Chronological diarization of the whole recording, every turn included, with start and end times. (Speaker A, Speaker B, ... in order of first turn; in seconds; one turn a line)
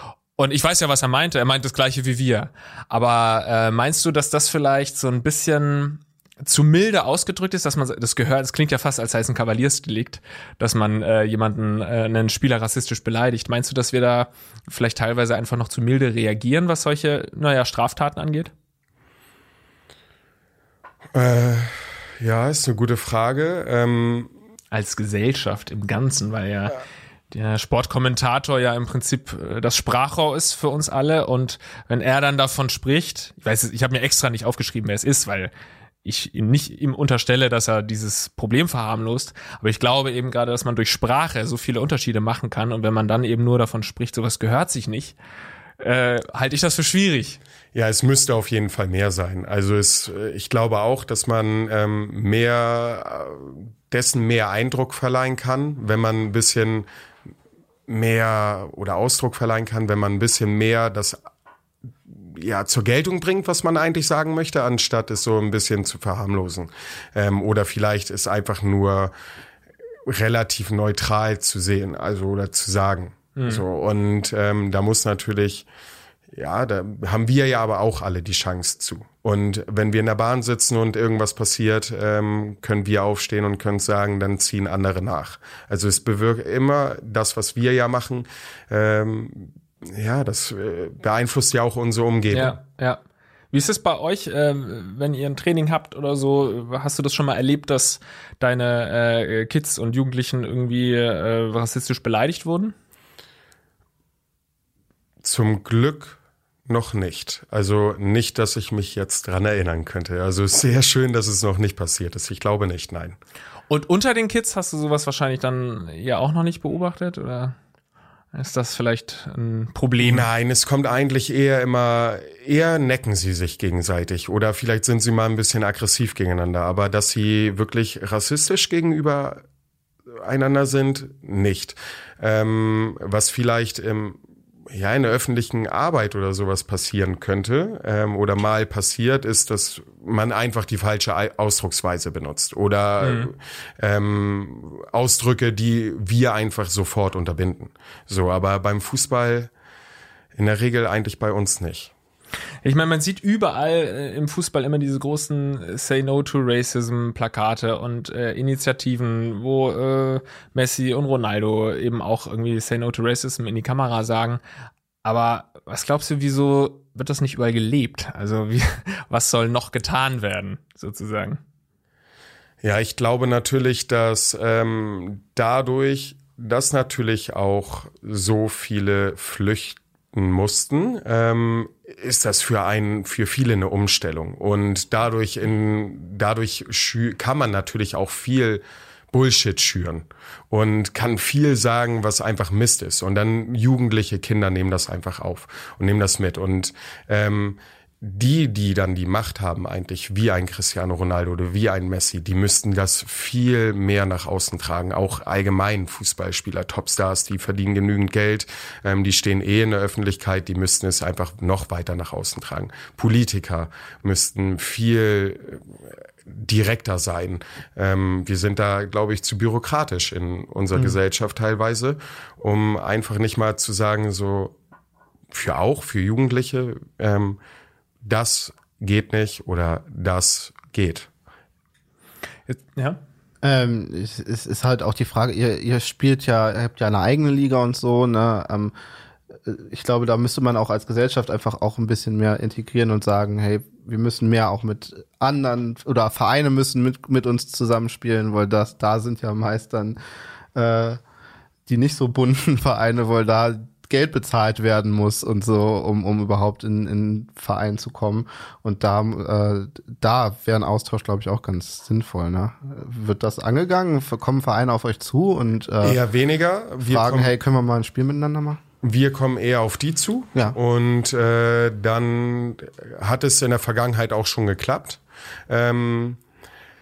Speaker A: 0.4-18.5
Speaker B: 21.1-24.3
Speaker A: 24.7-35.5
Speaker A: 36.0-45.1
Speaker A: 45.8-47.4
Speaker B: 47.7-56.9
Speaker B: 57.9-61.2
Speaker B: 62.3-69.1
Speaker B: 70.1-75.7
Speaker A: 73.4-73.6
Speaker B: 76.3-92.6
Speaker A: 92.3-93.0
Speaker A: 93.5-102.8
Speaker B: 105.2-106.2
Speaker B: 106.7-113.2
Speaker A: 113.7-117.6
Speaker A: 118.3-120.3
Speaker B: 120.0-129.4
Speaker B: 130.2-134.2
Speaker B: 134.7-149.5
Speaker A: 143.0-143.3
Speaker B: 150.3-151.9
Speaker A: 152.6-164.4
Speaker A: 165.0-171.4
Speaker B: 172.6-224.6
Speaker B: 225.3-227.4
Speaker B: 228.0-231.1
Speaker A: 232.5-233.0
Speaker C: 233.4-238.7
Speaker C: 239.4-250.0
Speaker C: 250.6-251.0
Speaker C: 251.7-266.0
Speaker B: 265.8-267.4
Speaker C: 266.8-268.6
Speaker B: 268.8-276.2